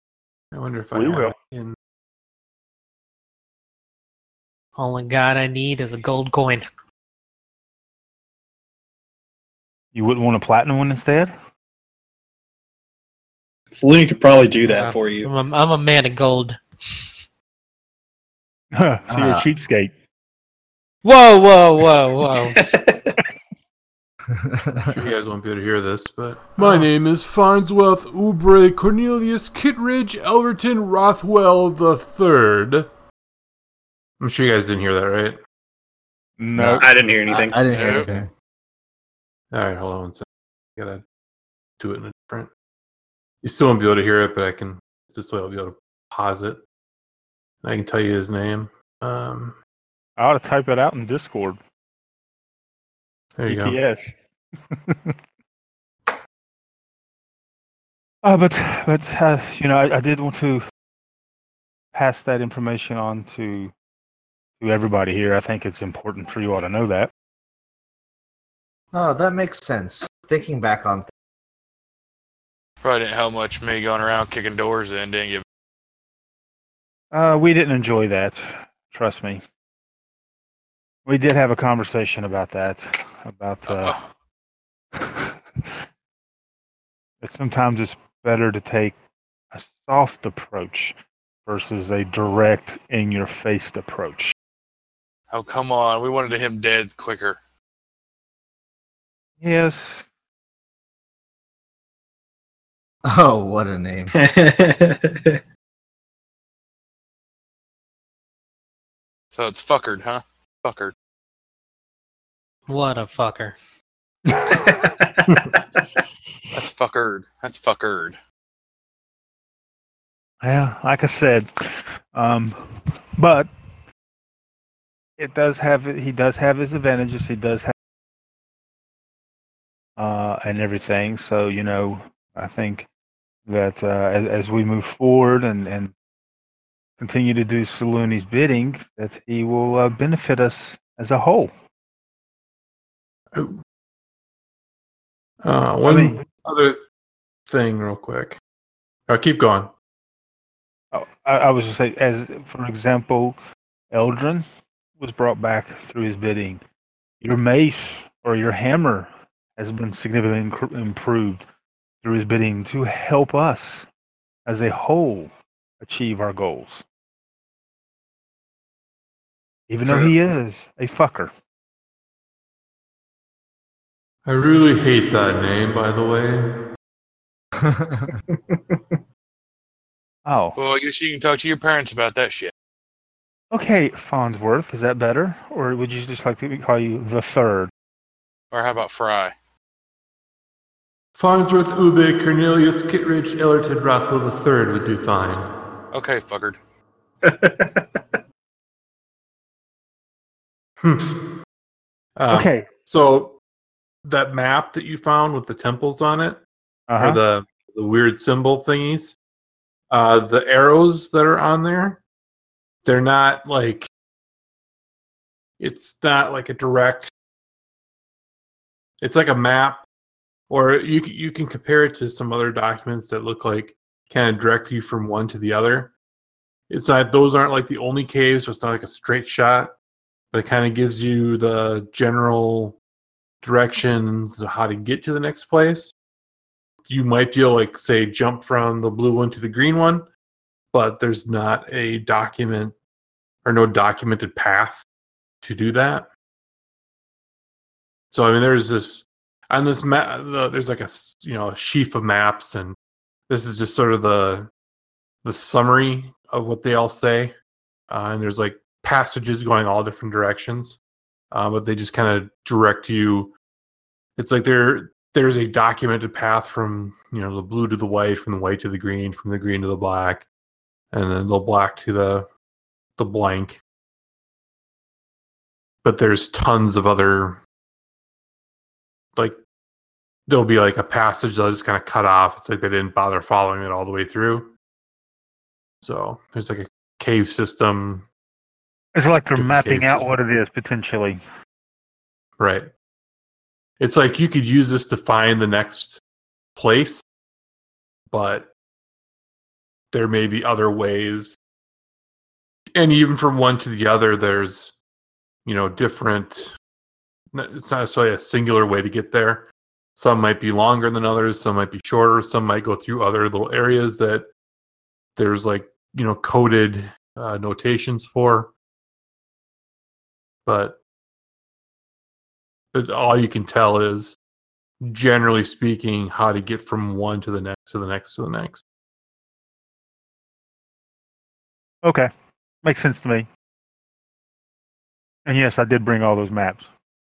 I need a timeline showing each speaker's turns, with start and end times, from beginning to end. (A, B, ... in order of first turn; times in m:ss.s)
0:00.5-0:01.8 A
0:00.9-0:01.3 B
0:04.8-0:06.6 C
0:09.9-0:11.3 B
0:13.7-0:15.3 D
0:15.2-0:16.6 C
0:18.7-0:19.9 B
0:19.1-0:19.5 E
0:21.0-0:22.6 C
0:22.4-0:23.2 D
0:24.3-0:25.0 E
0:24.9-0:32.9 A
0:26.6-0:26.9 B
0:34.2-0:35.4 A
0:36.4-0:36.9 B
0:36.5-0:38.3 E
0:36.8-0:38.1 D
0:37.7-0:38.0 F
0:39.5-0:40.2 A
0:40.8-0:41.0 A
0:41.8-0:42.5 A
0:43.4-0:46.6 A
0:47.6-0:49.6 A
0:50.2-0:51.6 B
0:53.4-0:53.8 A
0:53.5-0:54.2 B
0:54.7-0:55.1 B
0:58.2-1:00.6 B
1:01.9-1:03.7 B
1:04.6-1:07.1 B
1:08.9-1:11.1 E
1:12.8-1:15.4 F
1:17.1-1:19.4 B
1:21.0-1:24.0 B
1:23.7-1:24.0 F
1:24.9-1:25.7 B
1:27.2-1:29.0 B
1:29.5-1:34.3 B
1:35.3-1:37.4 F
1:39.4-1:40.1 B
1:43.0-1:44.1 E
1:44.1-1:45.4 D
1:49.3-1:50.9 F
1:52.7-1:53.5 C
1:54.3-1:54.8 B
1:54.7-1:55.6 D
1:56.5-1:58.2 F
2:00.4-2:02.6 B
2:03.2-2:03.5 B
2:05.2-2:07.7 B
2:10.0-2:12.9 B
2:13.4-2:15.9 B
2:17.0-2:21.5 B
2:25.4-2:26.8 A
2:25.8-2:26.2 B
2:27.5-2:28.4 A
2:29.1-2:29.7 A
2:30.9-2:33.4 B
2:33.9-2:34.4 B
2:35.0-2:36.6 B
2:37.2-2:41.4 B
2:42.0-2:43.9 B
2:44.4-2:46.8 B
2:49.7-2:51.3 B
2:54.2-2:56.5 A
2:57.6-2:58.1 E
2:58.1-2:59.0 D
3:00.2-3:00.6 B
3:00.6-3:02.5 F
3:03.5-3:07.7 B
3:08.5-3:09.3 F
3:11.2-3:15.5 A
3:15.9-3:16.6 F
3:17.2-3:18.0 D
3:20.8-3:21.1 A
3:22.2-3:23.4 A
3:22.3-3:22.7 B
3:24.0-3:26.4 A
3:26.9-3:27.2 B
3:27.0-3:29.1 A
3:29.9-3:32.0 A
3:32.8-3:33.9 A
3:35.6-3:37.1 A
3:39.0-3:39.8 A
3:40.5-3:45.9 A
3:46.7-3:49.7 A
3:50.3-3:52.8 A
3:53.4-3:55.9 A
3:56.9-4:00.1 A
4:00.7-4:02.7 A
4:03.4-4:04.8 A
4:05.4-4:06.1 A
4:08.1-4:12.8 A
4:13.3-4:14.5 A
4:15.2-4:17.3 A
4:17.9-4:20.8 A
4:21.3-4:23.3 A
4:24.2-4:30.2 A
4:30.9-4:32.3 A
4:33.0-4:33.6 A
4:35.8-4:37.4 A
4:40.3-4:44.5 A
4:45.8-4:48.0 A
4:48.9-4:51.2 B
4:49.3-4:50.1 A
4:52.4-4:52.7 A
4:53.8-4:56.0 A
4:56.6-4:57.0 A
4:58.1-4:58.5 A
4:59.9-5:01.4 A
5:02.7-5:04.7 A
5:05.4-5:06.5 A
5:07.3-5:14.3 A
5:15.2-5:18.5 A
5:20.4-5:20.8 A
5:22.7-5:24.2 A
5:24.8-5:28.6 A
5:31.8-5:32.1 B
5:32.6-5:33.3 B
5:35.2-5:36.7 B